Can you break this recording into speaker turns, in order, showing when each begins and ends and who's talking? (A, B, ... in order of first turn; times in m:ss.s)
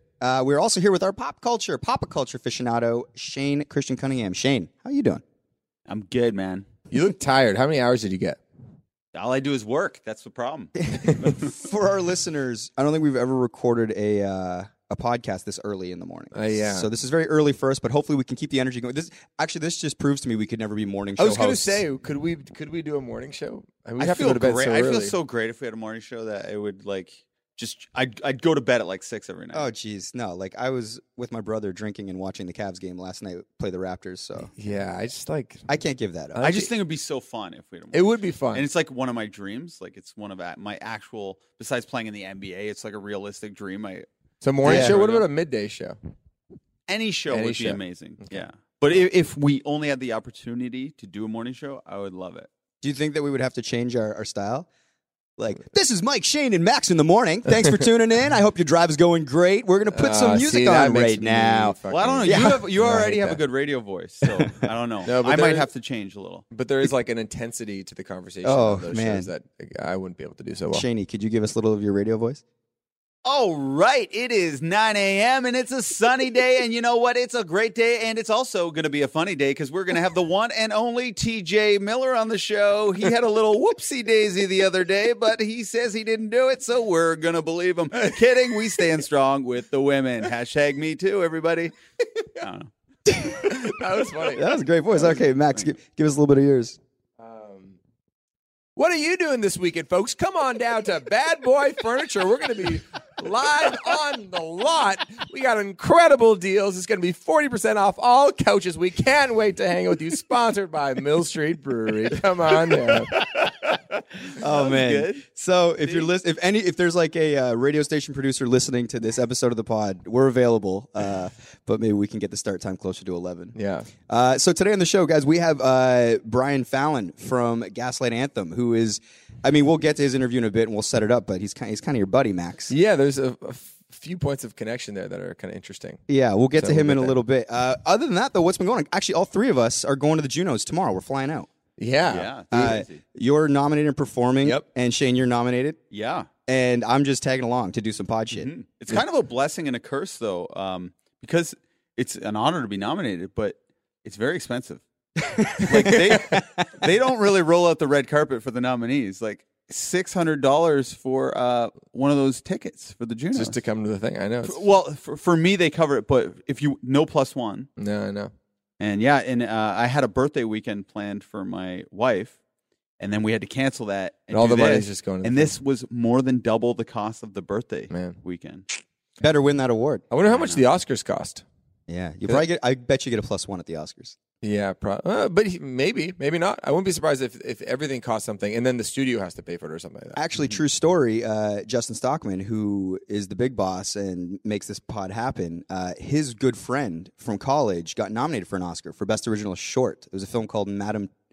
0:00.2-0:05.2 A
0:05.9-0:06.7 B
0:06.9-0:08.4 C
0:09.1-0:11.3 B
0:10.8-0:21.8 A
0:16.3-0:16.9 C
0:21.2-0:25.2 C
0:24.0-0:29.7 B
0:29.5-0:34.5 A
0:34.5-0:35.6 C
0:35.7-0:36.5 A
0:36.4-0:36.7 C
0:36.4-0:44.1 B
0:37.9-0:38.6 C
0:44.4-0:46.0 C
0:44.6-0:45.3 B
0:44.6-0:45.0 A
0:46.9-0:52.5 B
0:47.3-0:48.4 C
0:52.8-0:54.7 A
0:55.4-1:02.6 A
0:59.9-1:03.4 C
1:01.9-1:06.4 B
1:05.0-1:05.7 C
1:06.5-1:10.9 C
1:08.4-1:09.3 A
1:10.7-1:12.4 A
1:13.2-1:31.7 B
1:32.4-1:32.7 B
1:33.1-1:33.6 A
1:33.3-1:34.6 C
1:34.2-1:36.8 A
1:37.2-1:37.8 C
1:38.8-1:53.2 C
1:52.6-1:55.2 B
1:54.4-2:03.6 A
1:55.8-1:56.1 B
2:03.6-2:03.9 C
2:04.1-2:12.8 A
2:12.7-2:16.0 C
2:16.1-2:21.5 A
2:16.6-2:17.2 C
2:21.8-2:22.3 C
2:22.1-2:23.0 B
2:22.5-2:25.8 A
2:25.9-2:26.3 B
2:26.5-2:29.0 A
2:28.3-2:34.8 B
2:35.2-2:36.7 A
2:35.6-2:43.6 B
2:43.3-2:44.6 C
2:44.4-2:47.7 B
2:47.8-2:48.3 C
2:48.8-2:52.4 B
2:53.0-2:58.7 B
2:54.3-2:55.6 C
2:57.9-2:58.2 C
2:59.2-3:00.0 A
3:00.1-3:01.4 C
3:00.3-3:00.6 B
3:01.9-3:04.2 A
3:04.4-3:10.2 C
3:10.2-3:21.1 A